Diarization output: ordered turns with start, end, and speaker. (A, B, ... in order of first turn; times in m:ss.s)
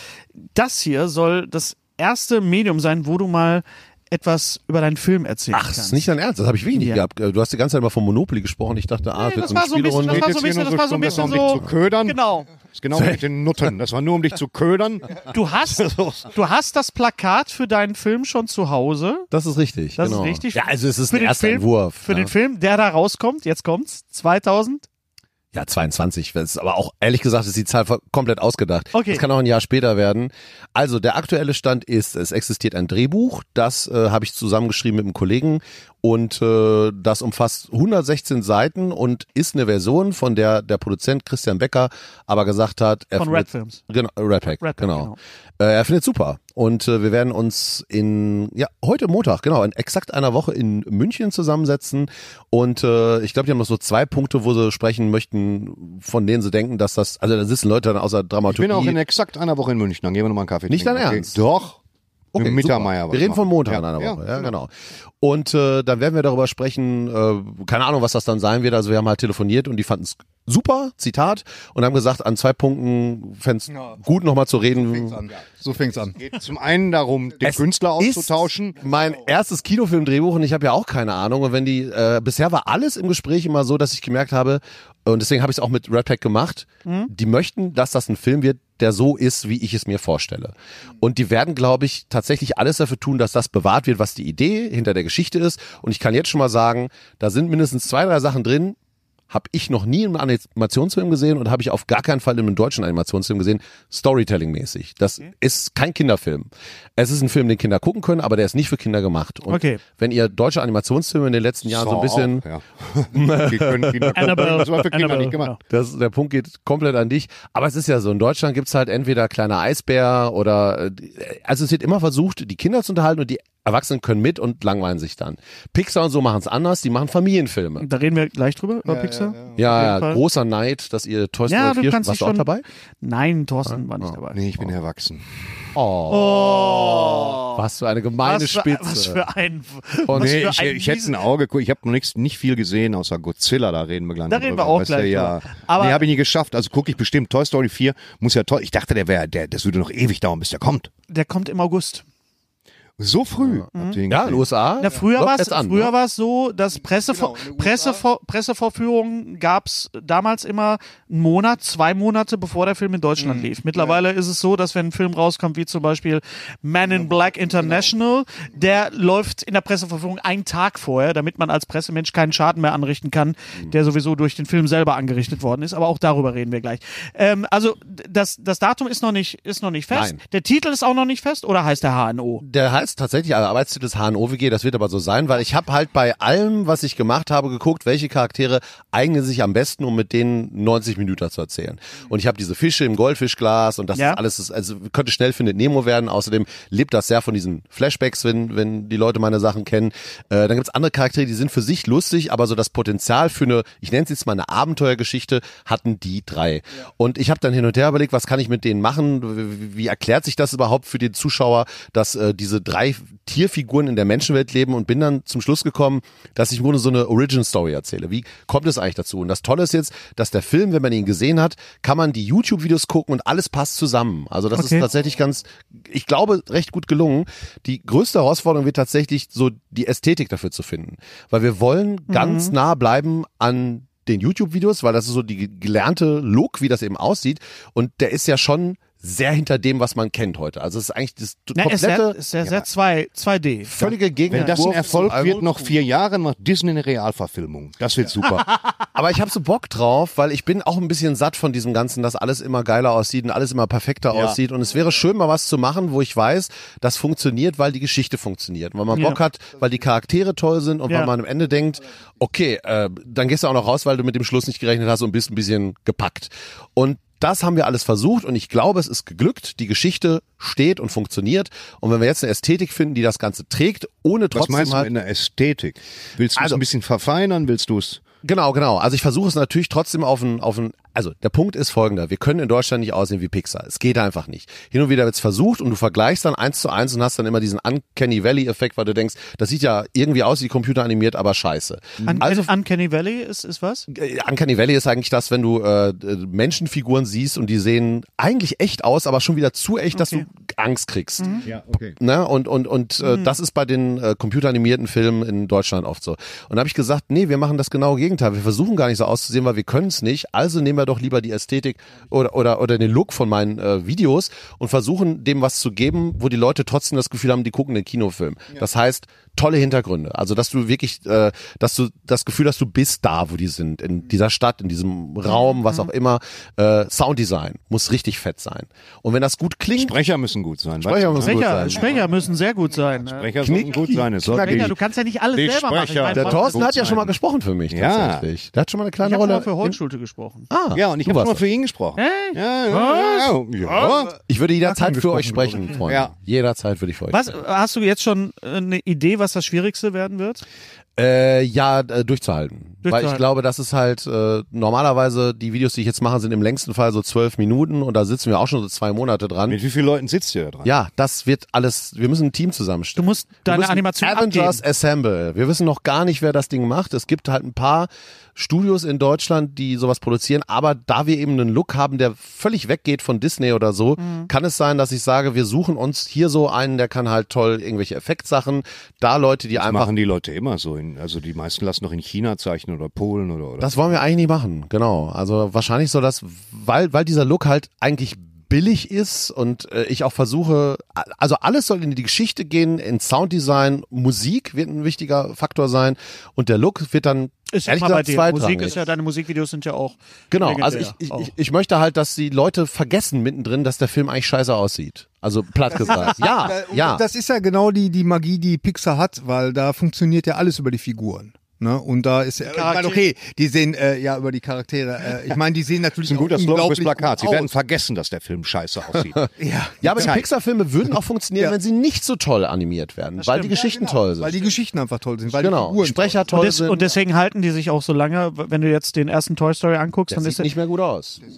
0:00.5-0:06.1 A
0:05.5-0:10.3 B
0:06.7-0:07.0 A
0:09.2-0:12.5 A
0:10.0-0:12.2 C
0:11.2-0:11.7 B
0:12.7-0:16.3 C
0:12.9-0:13.2 B
0:15.3-0:19.3 A
0:19.3-0:22.3 B
0:20.0-0:24.8 A
0:25.5-0:59.0 B
0:28.9-0:29.2 A
0:43.2-0:43.8 A
0:44.6-0:45.2 A
0:58.5-1:01.8 C
1:00.7-1:01.4 B
1:02.3-1:15.3 B
1:02.4-1:04.2 C
1:14.9-1:16.2 D
1:16.2-1:18.8 C
1:17.4-1:38.8 B
1:26.8-1:27.1 A
1:39.3-1:52.4 B
1:49.5-1:49.8 A
1:51.6-1:55.5 C
1:53.1-1:54.5 B
1:54.1-1:55.6 A
1:55.7-2:07.9 B
2:07.8-2:10.2 A
2:08.9-2:09.4 D
2:09.6-2:12.6 B
2:11.5-2:12.5 A
2:13.0-2:14.4 A
2:13.7-2:14.7 B
2:14.3-2:15.8 C
2:15.8-2:19.2 B
2:16.1-2:17.6 A
2:18.2-2:21.2 A
2:20.0-2:20.5 B
2:20.1-2:30.9 C
2:24.3-2:26.1 A
2:31.1-2:32.0 A
2:33.0-2:34.5 C
2:33.4-2:35.9 B
2:33.8-2:34.0 A
2:34.8-3:02.4 A
2:37.1-2:38.0 D
2:43.2-2:43.5 D
2:47.5-2:47.8 D
2:59.9-3:00.2 B
3:02.4-4:02.2 B
3:44.5-3:44.8 A
3:52.1-3:52.5 A
4:01.6-4:04.5 A
4:03.6-4:05.2 B
4:03.8-4:08.6 C
4:04.9-4:05.5 D
4:08.9-4:34.9 B
4:14.1-4:14.4 C
4:18.9-4:19.2 A
4:34.3-4:38.0 C
4:36.4-4:36.6 B
4:38.2-4:52.5 B
4:52.0-4:53.9 A
4:53.9-5:01.4 B
4:59.9-5:00.2 A
5:01.2-5:01.5 A
5:01.4-5:02.0 C
5:02.0-5:30.0 B
5:03.0-5:03.3 A
5:25.3-5:25.9 A
5:29.8-5:32.0 C
5:30.8-5:32.0 B
5:31.2-5:33.3 A
5:33.1-5:34.8 C
5:33.4-5:34.7 B
5:34.2-5:36.8 A
5:35.3-5:37.2 C
5:36.1-5:39.8 B
5:37.7-5:38.3 C
5:39.0-5:40.5 A
5:40.5-5:41.4 B
5:40.7-5:44.1 C
5:42.0-5:43.9 A
5:44.3-5:47.4 B
5:44.7-5:45.8 D
5:45.9-5:46.1 C
5:47.1-5:50.4 A
5:51.0-5:59.6 B
5:52.8-5:53.2 A
5:59.5-6:00.7 C
6:00.6-6:19.9 B
6:03.0-6:04.6 A
6:14.0-6:14.3 A
6:19.6-6:23.7 C
6:23.6-6:38.8 B
6:37.5-6:41.3 A
6:40.3-6:47.0 B
6:45.7-6:57.5 D
6:52.4-6:53.0 A
6:56.0-6:59.3 C
6:59.4-7:00.2 D
6:59.8-7:04.4 B
6:59.9-7:00.2 C
7:03.4-7:06.2 D
7:05.3-7:06.9 B
7:06.3-7:10.5 A
7:10.1-7:11.2 B